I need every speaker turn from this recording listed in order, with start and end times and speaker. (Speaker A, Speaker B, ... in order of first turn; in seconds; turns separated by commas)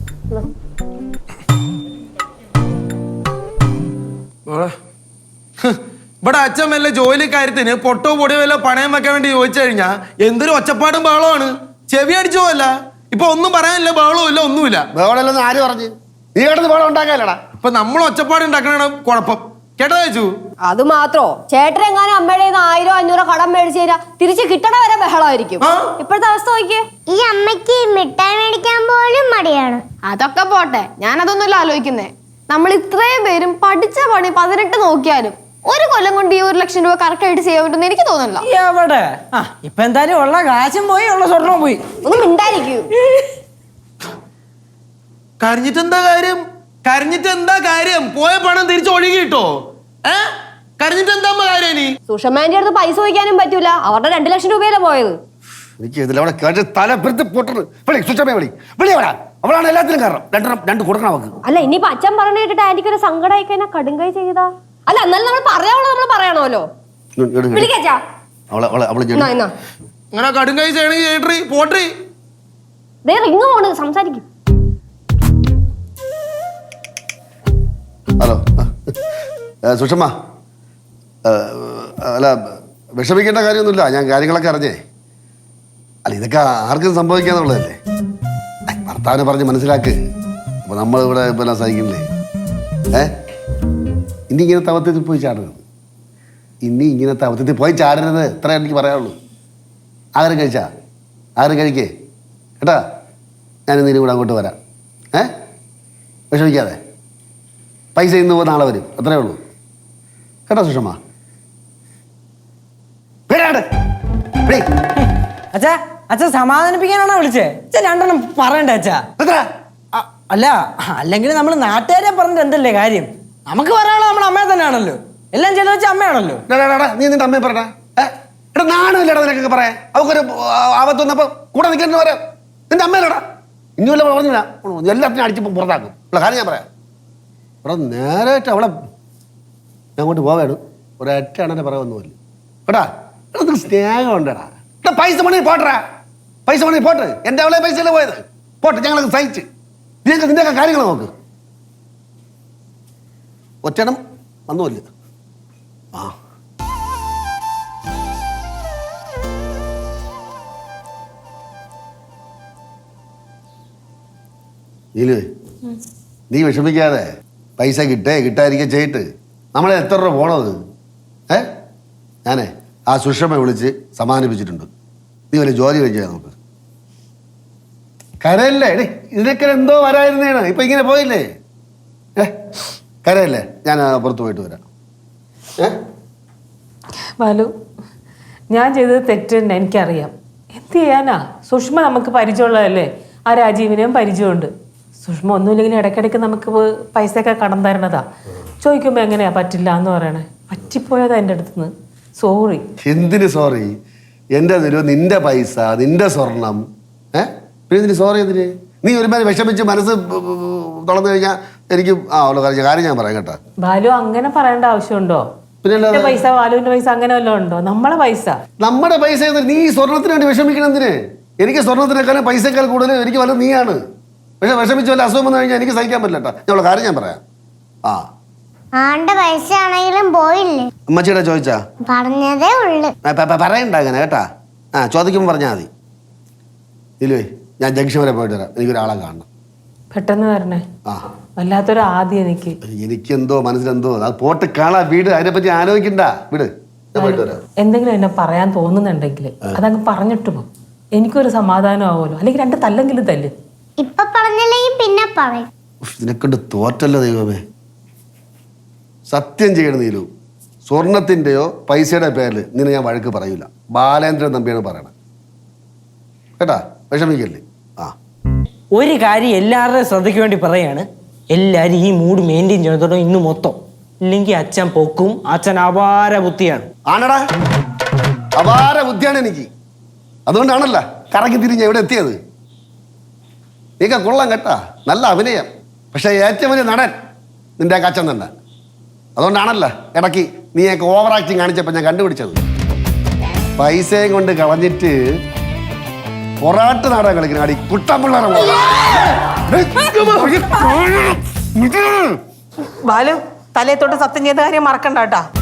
Speaker A: 4.5-4.8, Speaker A: 5.6-14.9, Speaker B: 14.9-17.4, Speaker A: 17.6-20.3, Speaker C: 20.6-26.8, Speaker A: 25.6-25.9, Speaker D: 27.1-29.8, Speaker E: 30.1-38.4, Speaker F: 38.4-41.8, Speaker C: 42.0-42.9, Speaker A: 45.4-52.0, Speaker C: 52.1-55.1, Speaker B: 55.8-61.4, Speaker C: 61.5-66.7, Speaker B: 67.2-67.7, Speaker C: 67.5-68.0, Speaker B: 68.5-69.3, Speaker C: 69.2-69.5, Speaker A: 70.1-71.9, Speaker C: 73.0-74.2, Speaker B: 78.2-79.0, Speaker B: 79.7-80.1, Speaker B: 81.2-84.8, Speaker B: 86.0-87.8, Speaker B: 88.7-90.0, Speaker B: 90.7-92.1, Speaker B: 94.3-95.6, Speaker B: 96.6-99.2, Speaker B: 100.2-100.7, Speaker B: 101.4-101.9, Speaker B: 103.7-104.6, Speaker B: 106.3-106.8, Speaker B: 108.0-109.4, Speaker B: 110.5-111.0, Speaker B: 113.3-113.7, Speaker F: 115.5-119.1, Speaker B: 119.2-119.4, Speaker F: 120.0-126.4, Speaker B: 126.5-133.2, Speaker B: 133.8-136.7, Speaker B: 137.7-138.7, Speaker B: 140.0-142.2, Speaker B: 142.7-145.8, Speaker B: 146.5-149.5, Speaker B: 150.1-151.1, Speaker B: 153.6-154.8, Speaker B: 165.0-165.2, Speaker B: 166.3-167.1, Speaker B: 167.6-170.6, Speaker B: 172.3-174.7, Speaker B: 175.3-176.3, Speaker B: 178.2-181.3, Speaker B: 183.0-184.7, Speaker G: 187.2-187.5, Speaker G: 188.5-194.5, Speaker G: 195.0-198.0, Speaker G: 198.6-202.6, Speaker B: 202.8-203.7, Speaker B: 204.3-206.6, Speaker B: 207.2-213.4, Speaker G: 213.6-215.2, Speaker B: 215.6-216.2, Speaker G: 215.9-218.4, Speaker B: 218.6-223.8, Speaker B: 224.4-227.2, Speaker D: 228.8-230.7, Speaker B: 230.9-231.6, Speaker D: 231.9-232.9, Speaker B: 233.1-234.2, Speaker B: 234.8-235.7, Speaker B: 237.0-239.3, Speaker G: 239.9-240.6, Speaker G: 241.4-242.6, Speaker B: 242.6-247.4, Speaker G: 247.0-253.3, Speaker D: 253.8-255.5, Speaker B: 255.8-257.4, Speaker B: 259.1-260.1, Speaker B: 260.7-264.9, Speaker B: 266.4-267.9, Speaker F: 268.7-276.7, Speaker B: 276.9-277.2, Speaker B: 278.4-279.5, Speaker B: 280.3-282.2, Speaker B: 283.8-286.9, Speaker B: 287.6-288.3, Speaker B: 289.2-292.4, Speaker B: 293.6-295.0, Speaker B: 296.4-302.1, Speaker G: 302.8-305.2